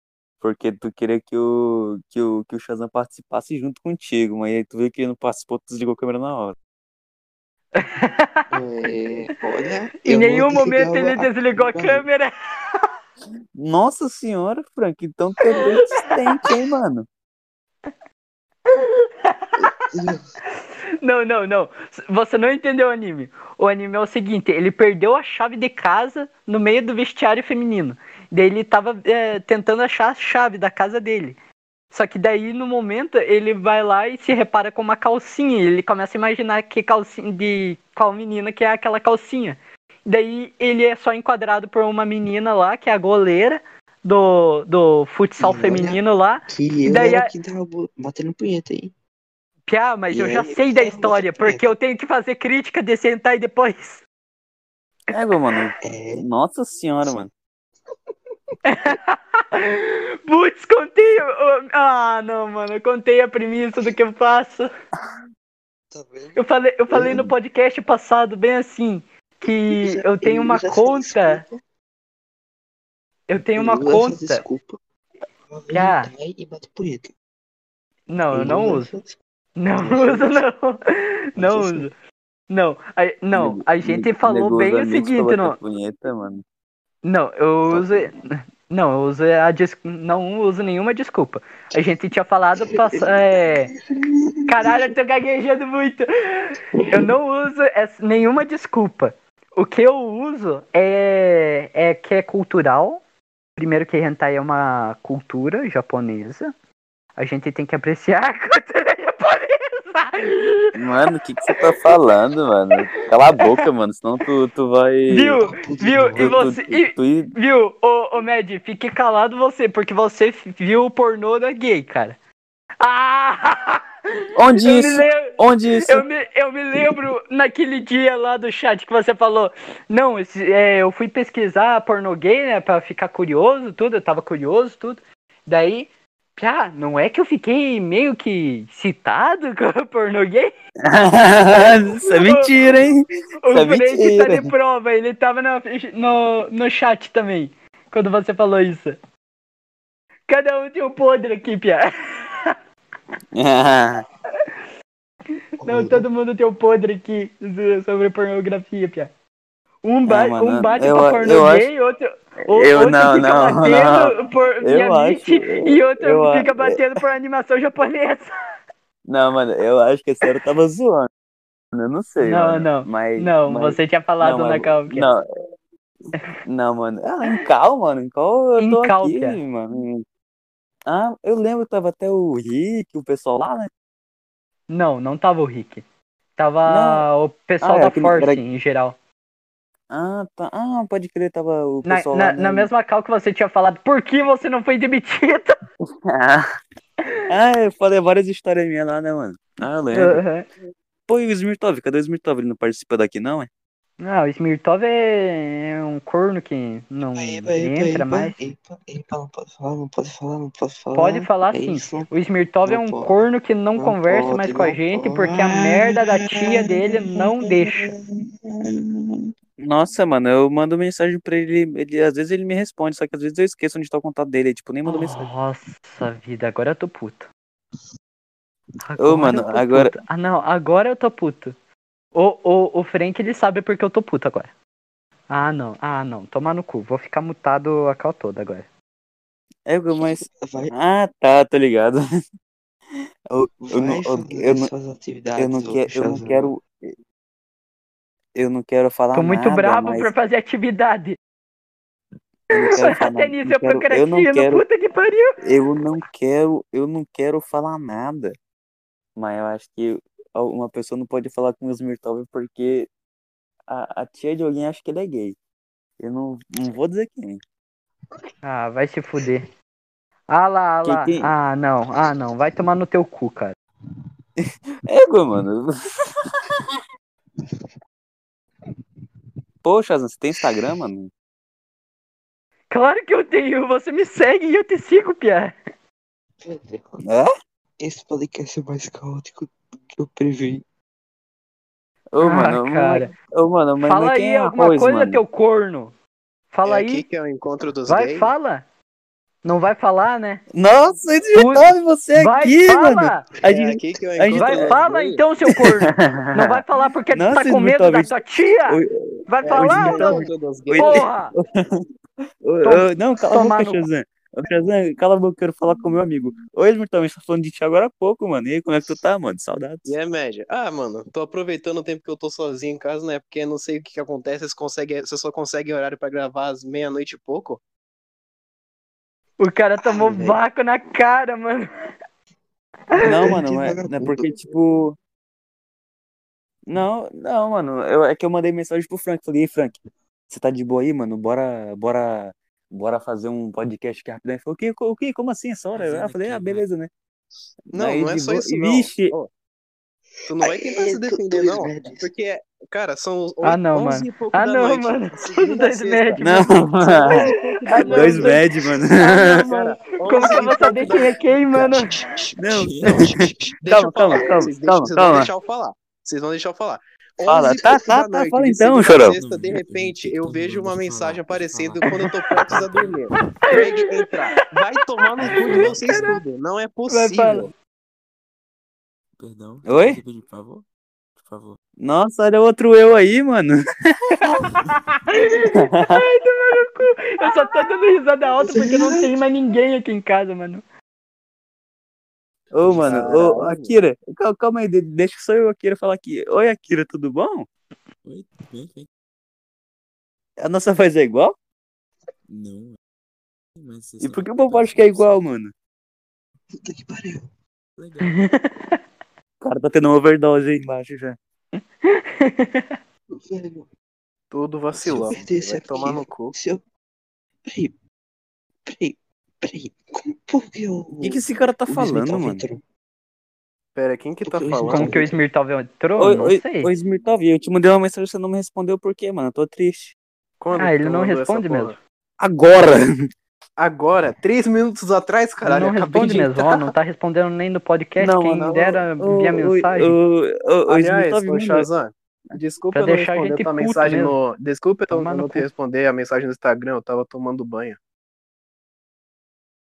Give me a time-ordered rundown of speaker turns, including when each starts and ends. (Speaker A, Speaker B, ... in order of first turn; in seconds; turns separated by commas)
Speaker A: 0.4-6.6, Speaker B: 7.8-8.5, Speaker C: 8.5-12.1, Speaker B: 10.1-12.9, Speaker A: 13.6-17.1, Speaker B: 15.6-16.1, Speaker B: 18.7-19.7, Speaker C: 19.6-20.3, Speaker B: 21.0-31.4, Speaker B: 31.9-47.3, Speaker C: 45.4-48.9, Speaker B: 49.7-54.0, Speaker C: 50.1-51.7, Speaker A: 55.1-57.3, Speaker C: 55.8-56.2, Speaker C: 57.0-57.3, Speaker B: 58.7-64.7, Speaker C: 65.9-67.3, Speaker B: 66.4-71.4, Speaker C: 69.5-71.6, Speaker B: 73.3-74.5, Speaker C: 73.4-74.8, Speaker C: 75.5-77.1, Speaker B: 75.7-76.1, Speaker B: 78.1-78.9, Speaker C: 78.3-79.2, Speaker B: 79.6-81.9, Speaker C: 79.8-80.4, Speaker C: 81.4-81.9, Speaker B: 82.5-85.6, Speaker A: 83.3-86.4, Speaker B: 87.0-88.2, Speaker C: 87.7-88.1, Speaker B: 88.7-93.7, Speaker C: 92.6-94.9, Speaker B: 94.5-103.0, Speaker C: 96.7-97.1, Speaker B: 103.6-106.5, Speaker B: 107.2-110.8, Speaker A: 110.8-115.4, Speaker B: 115.1-122.2, Speaker C: 115.4-116.4, Speaker A: 116.2-117.3, Speaker B: 122.8-123.8, Speaker A: 124.4-126.0, Speaker B: 124.5-140.5, Speaker A: 140.9-144.5, Speaker B: 141.5-142.5, Speaker B: 143.4-149.0, Speaker B: 150.3-152.6, Speaker A: 153.3-154.0, Speaker C: 155.6-156.1, Speaker B: 155.6-159.1, Speaker B: 159.8-168.3, Speaker A: 160.1-161.7, Speaker A: 162.5-166.7, Speaker A: 169.1-171.1, Speaker A: 171.7-175.2, Speaker B: 172.2-175.1, Speaker A: 176.4-180.0, Speaker B: 178.6-179.4, Speaker A: 180.9-183.7, Speaker B: 184.7-185.8, Speaker B: 186.4-189.0, Speaker A: 186.7-187.1, Speaker A: 187.6-188.4, Speaker A: 189.9-192.7, Speaker B: 191.8-195.6, Speaker A: 196.1-196.5, Speaker A: 197.3-200.2, Speaker B: 199.9-200.5, Speaker A: 201.1-203.5, Speaker B: 204.0-208.4, Speaker C: 207.2-212.1, Speaker B: 210.9-217.9, Speaker C: 212.7-213.2, Speaker C: 213.8-218.5, Speaker A: 219.6-225.3, Speaker B: 224.9-227.3, Speaker B: 228.8-231.6, Speaker A: 229.0-229.9, Speaker B: 232.1-234.5, Speaker B: 235.3-238.7, Speaker A: 239.7-242.0, Speaker C: 239.9-240.7, Speaker A: 243.3-244.7, Speaker C: 243.6-246.5, Speaker A: 245.4-246.9, Speaker A: 248.4-250.1, Speaker B: 249.1-251.2, Speaker A: 252.5-254.6, Speaker B: 252.6-255.4, Speaker A: 255.4-258.4, Speaker A: 259.2-262.9, Speaker A: 263.7-265.4, Speaker A: 266.0-267.4, Speaker B: 268.4-269.4, Speaker B: 270.3-273.6, Speaker A: 270.9-271.3, Speaker A: 274.4-276.1, Speaker A: 279.6-281.1, Speaker B: 282.7-285.6, Speaker C: 286.4-287.0, Speaker C: 287.8-290.6, Speaker A: 292.1-295.2, Speaker B: 292.2-293.1, Speaker B: 293.8-295.9, Speaker B: 296.5-297.0, Speaker D: 296.6-298.3, Speaker B: 297.9-298.6, Speaker B: 299.4-300.4, Speaker A: 300.5-304.8, Speaker B: 301.4-303.3, Speaker D: 303.5-305.2, Speaker B: 304.3-310.3, Speaker A: 305.8-306.6, Speaker A: 307.1-311.8, Speaker D: 309.4-311.1, Speaker B: 310.8-311.3, Speaker A: 312.4-319.9, Speaker B: 312.6-313.9, Speaker D: 319.9-327.6, Speaker B: 329.4-331.7, Speaker C: 329.8-330.4, Speaker C: 333.0-334.3, Speaker A: 333.0-335.0, Speaker A: 336.7-339.8, Speaker A: 340.3-346.9, Speaker E: 345.8-346.6, Speaker A: 347.7-349.1, Speaker D: 347.7-349.3, Speaker D: 350.3-356.2, Speaker C: 350.4-352.1, Speaker B: 353.4-358.4, Speaker A: 356.2-359.8, Speaker D: 356.8-361.2, Speaker B: 360.0-361.9, Speaker C: 360.6-363.6, Speaker A: 362.4-365.3, Speaker E: 362.6-363.2, Speaker D: 363.6-377.5, Speaker A: 367.2-369.2, Speaker E: 369.1-371.9, Speaker B: 371.8-372.1, Speaker E: 372.5-373.4, Speaker B: 373.5-374.1, Speaker B: 375.2-375.6, Speaker E: 375.4-376.0, Speaker B: 376.9-377.5, Speaker E: 379.2-380.6, Speaker A: 379.7-380.0, Speaker E: 381.2-381.6, Speaker A: 381.8-384.4, Speaker B: 384.2-390.6, Speaker A: 385.6-386.1, Speaker A: 392.5-397.5, Speaker D: 392.6-393.8, Speaker E: 398.1-398.9, Speaker A: 400.4-401.4, Speaker E: 402.3-402.8, Speaker E: 403.6-405.3, Speaker A: 404.0-405.5, Speaker C: 406.5-407.3, Speaker E: 407.8-408.3, Speaker B: 408.1-408.8, Speaker A: 409.4-411.2, Speaker B: 411.6-412.8, Speaker C: 413.1-413.7, Speaker D: 414.3-416.3, Speaker C: 414.7-416.6, Speaker C: 417.5-417.7, Speaker C: 418.7-422.6, Speaker A: 421.0-422.4, Speaker D: 423.8-425.1, Speaker C: 424.2-425.2, Speaker B: 424.7-426.7, Speaker A: 426.0-429.9, Speaker D: 430.4-431.8, Speaker B: 430.6-431.8, Speaker A: 432.2-432.9, Speaker D: 433.6-436.7, Speaker B: 435.4-440.0, Speaker A: 438.0-441.7, Speaker D: 438.4-438.8, Speaker D: 440.7-447.8, Speaker B: 442.7-444.2, Speaker B: 444.9-445.5